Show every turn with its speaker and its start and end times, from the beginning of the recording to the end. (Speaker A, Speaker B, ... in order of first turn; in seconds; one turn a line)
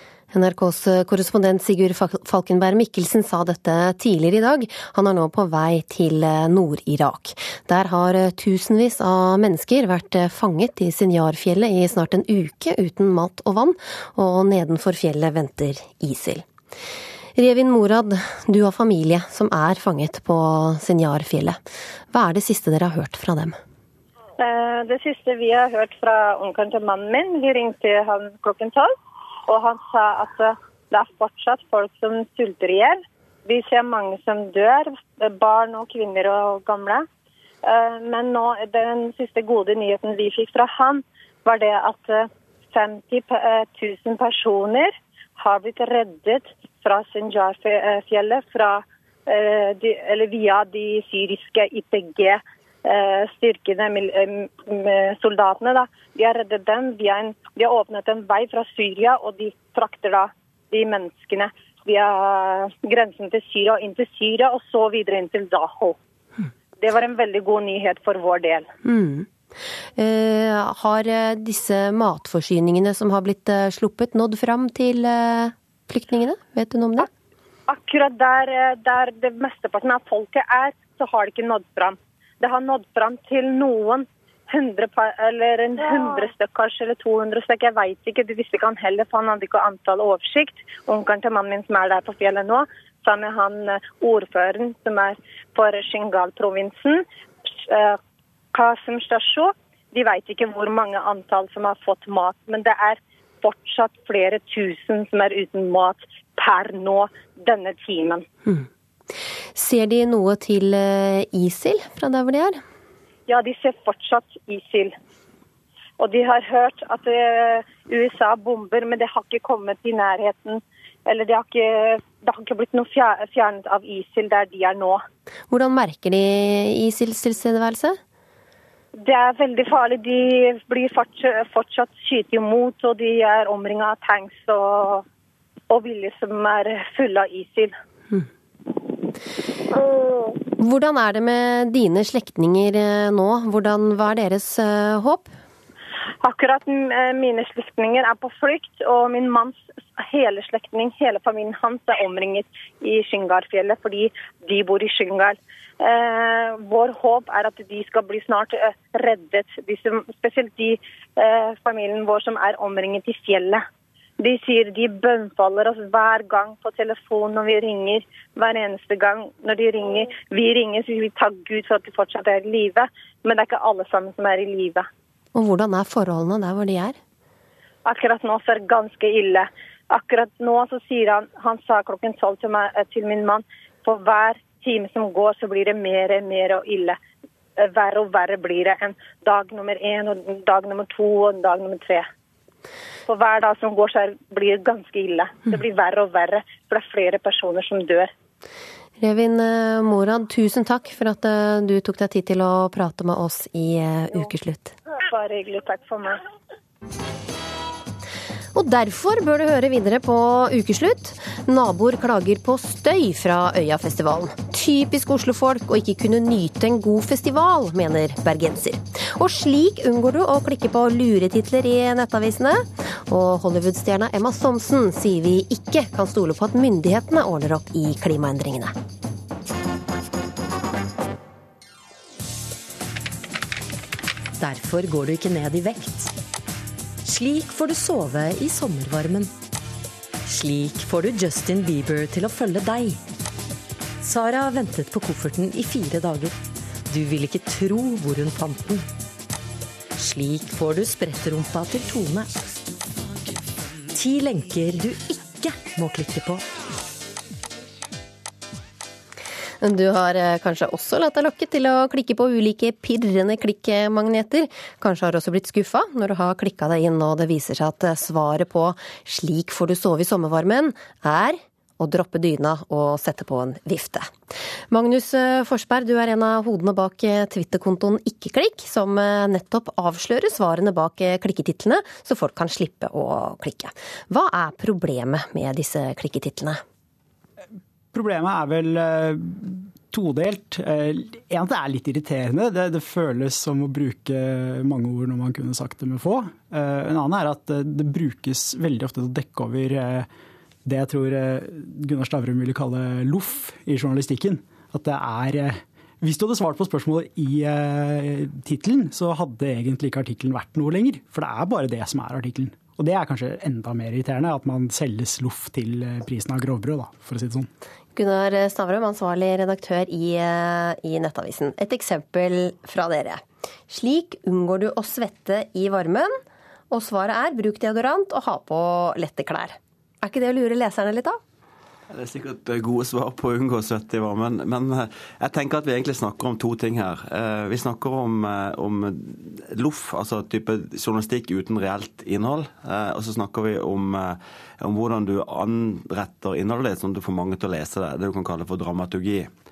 Speaker A: 0.3-16.4
Speaker A: 17.4-23.6
Speaker B: 24.4-28.9
Speaker B: 29.5-37.0
Speaker B: 37.6-66.0
Speaker B: 66.8-68.7
Speaker A: 68.8-69.3
Speaker A: 70.0-77.1
Speaker B: 77.7-98.0
Speaker B: 98.5-108.2
Speaker A: 109.5-112.6
Speaker B: 113.3-114.9
Speaker B: 116.0-125.0
Speaker A: 125.5-128.0
Speaker B: 129.0-135.0
Speaker B: 135.7-137.7
Speaker A: 140.6-145.3
Speaker B: 146.2-163.6
Speaker B: 164.2-174.8
Speaker A: 175.3-177.0
Speaker B: 177.8-186.9
Speaker B: 187.6-192.1
Speaker B: 193.1-198.1
Speaker A: 199.0-204.7
Speaker B: 204.9-206.2
Speaker A: 208.5-228.7
Speaker C: 234.4-236.1
Speaker C: 237.1-239.3
Speaker C: 240.3-243.0
Speaker C: 244.0-246.3
Speaker C: 246.9-248.8
Speaker C: 250.0-252.3
Speaker C: 253.9-256.4
Speaker A: 259.6-274.1
Speaker A: 274.7-286.6
Speaker D: 287.9-300.1
Speaker D: 300.6-317.5
Speaker A: 317.9-326.1
Speaker A: 326.7-331.2
Speaker E: 331.9-349.3